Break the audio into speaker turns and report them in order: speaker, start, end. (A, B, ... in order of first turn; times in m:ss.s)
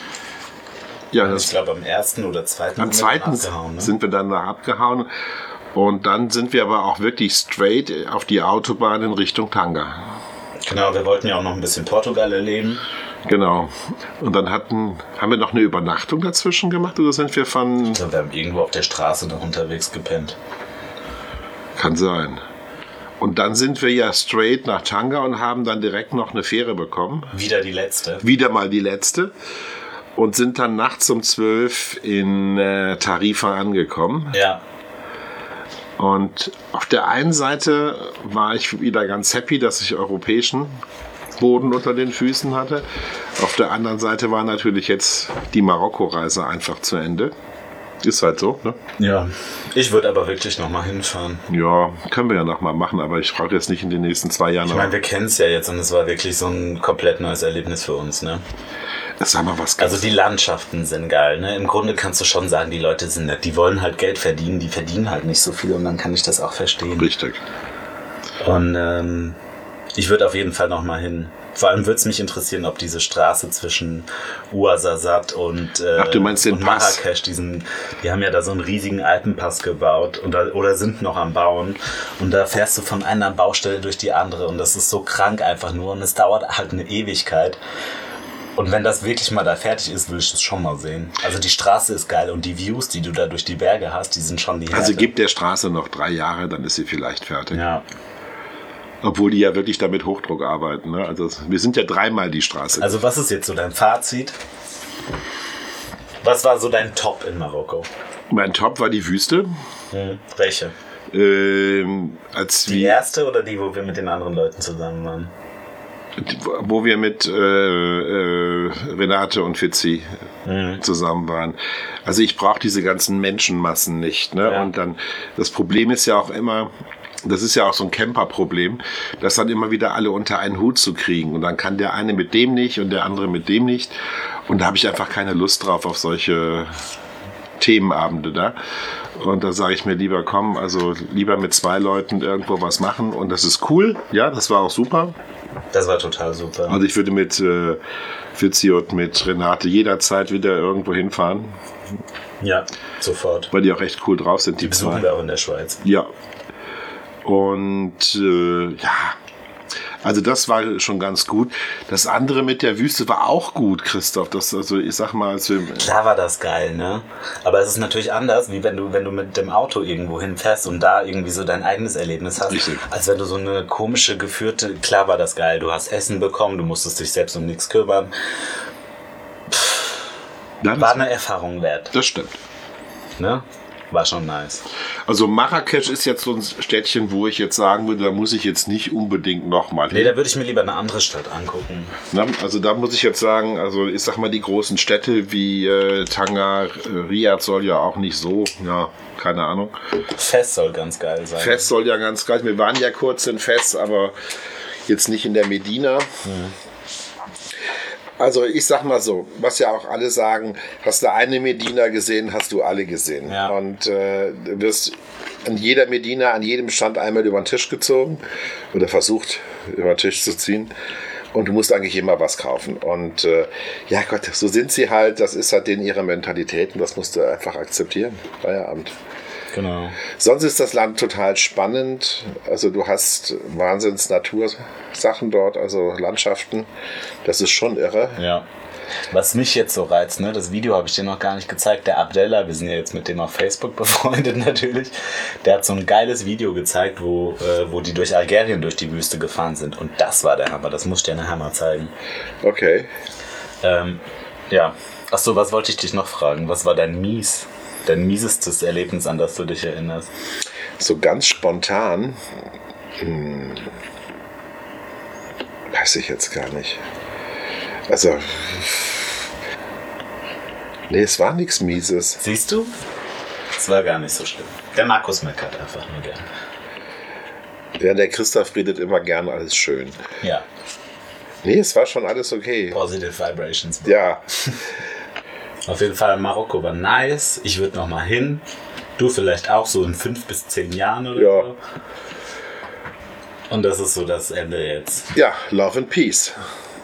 0:01.1-0:01.6 A
0:01.2-0:04.0 B
0:02.8-0:05.1 A
0:05.7-0:10.2 A
0:10.6-0:12.8 B
0:13.2-0:18.0 A
0:17.9-0:20.4 B
0:21.8-0:22.4 A
0:23.2-0:27.3 A
0:27.3-0:28.3 B
0:28.2-0:29.3 A
0:30.2-0:34.4 A
0:34.3-0:34.6 B
0:36.0-0:40.8 A
0:41.4-0:47.3 A
0:48.0-0:48.8 A
0:49.0-0:51.4 B
0:51.5-0:54.9 A
0:54.6-0:58.4 B
0:59.2-1:00.0 A
0:59.8-1:07.1 B
1:07.0-1:07.4 A
1:08.4-1:09.4 B
1:09.9-1:27.6 B
1:16.0-1:17.0 A
1:28.6-1:35.1 B
1:34.7-1:37.6 A
1:37.5-1:37.8 B
1:39.0-1:43.0 A
1:42.8-1:44.4 B
1:46.2-1:47.9 B
1:48.3-1:49.5 A
1:49.9-1:50.7 B
1:51.1-1:53.0 A
1:52.6-1:55.3 B
1:56.2-2:00.1 A
2:00.4-2:00.8 B
2:00.8-2:06.7 A
2:04.4-2:04.7 B
2:07.2-2:13.9 A
2:14.5-2:16.8 A
2:17.6-2:18.6 A
2:19.1-2:25.1 A
2:25.7-2:26.8 B
2:26.7-2:27.8 A
2:28.3-2:31.6 A
2:32.4-2:33.5 B
2:33.5-2:35.1 A
2:34.6-2:35.8 B
2:35.8-2:36.1 A
2:37.2-2:39.2 A
2:40.0-2:45.9 A
2:45.8-2:58.1 B
2:52.5-2:52.8 A
2:59.5-2:59.9 B
3:00.6-3:01.0 A
3:00.7-3:01.9 B
3:01.9-3:02.4 A
3:03.2-3:04.6 B
3:05.1-3:10.2 A
3:09.9-3:12.0 B
3:12.1-3:19.8 A
3:20.1-3:21.7 B
3:21.4-3:24.1 A
3:24.9-3:26.1 A
3:26.2-3:26.5 B
3:28.2-3:40.7 A
3:33.3-3:33.5 B
3:41.3-3:48.9 A
3:49.5-3:50.0 B
3:50.1-3:56.7 A
3:57.2-3:58.2 A
3:58.2-3:58.4 B
3:59.1-4:11.9 B
4:12.4-4:12.9 A
4:13.6-4:20.1 B
4:20.8-4:22.2 A
4:23.0-4:23.7 A
4:25.7-4:26.8 A
4:27.9-4:29.2 A
4:30.9-4:32.2 A
4:32.2-4:32.7 B
4:33.6-4:36.2 B
4:37.8-4:40.0 A
4:41.4-4:42.8 A
4:42.7-4:44.6 B
4:43.8-4:44.2 A
4:45.6-4:48.4 B
4:49.0-4:51.6 B
4:51.2-4:51.5 A
4:53.5-4:55.1 B
4:55.1-4:56.4 A